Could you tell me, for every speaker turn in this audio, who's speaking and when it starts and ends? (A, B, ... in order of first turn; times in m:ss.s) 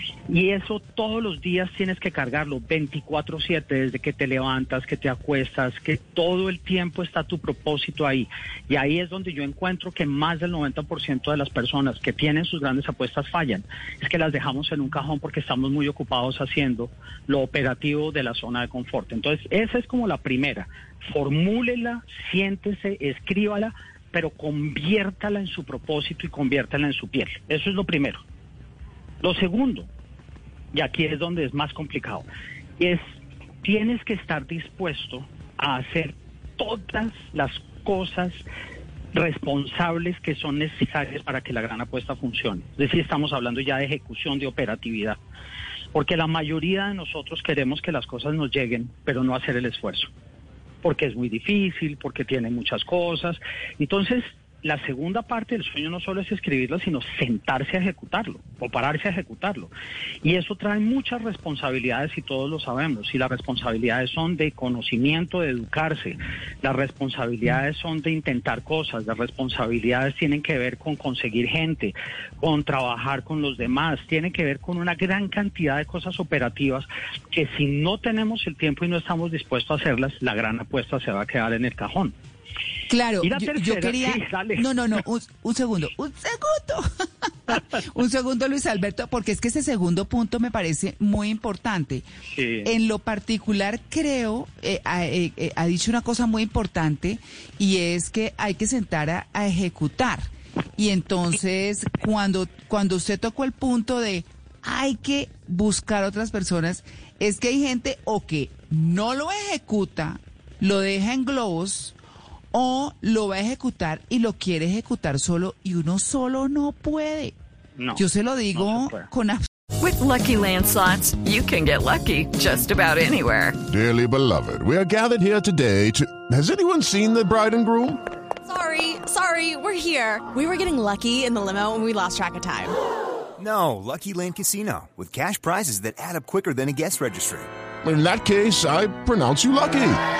0:00.3-0:28.2 A
0:29.2-0:29.9 A
0:30.7-0:32.2 A
0:33.6-0:38.4 A
0:39.1-0:45.2 A
0:45.9-0:50.1 A
0:50.8-0:59.7 A
1:00.2-1:22.1 A
1:22.9-1:32.0 B
1:23.2-1:24.7 A
1:32.3-1:32.7 A
1:32.6-1:51.9 B
1:52.5-1:57.3 B
1:57.8-1:58.0 A
1:58.0-1:59.4 B
1:58.5-1:59.1 A
1:59.8-2:03.6 C
2:03.7-2:08.0 D
2:08.4-2:12.8 E
2:13.4-2:17.5 F
2:17.8-2:20.0 D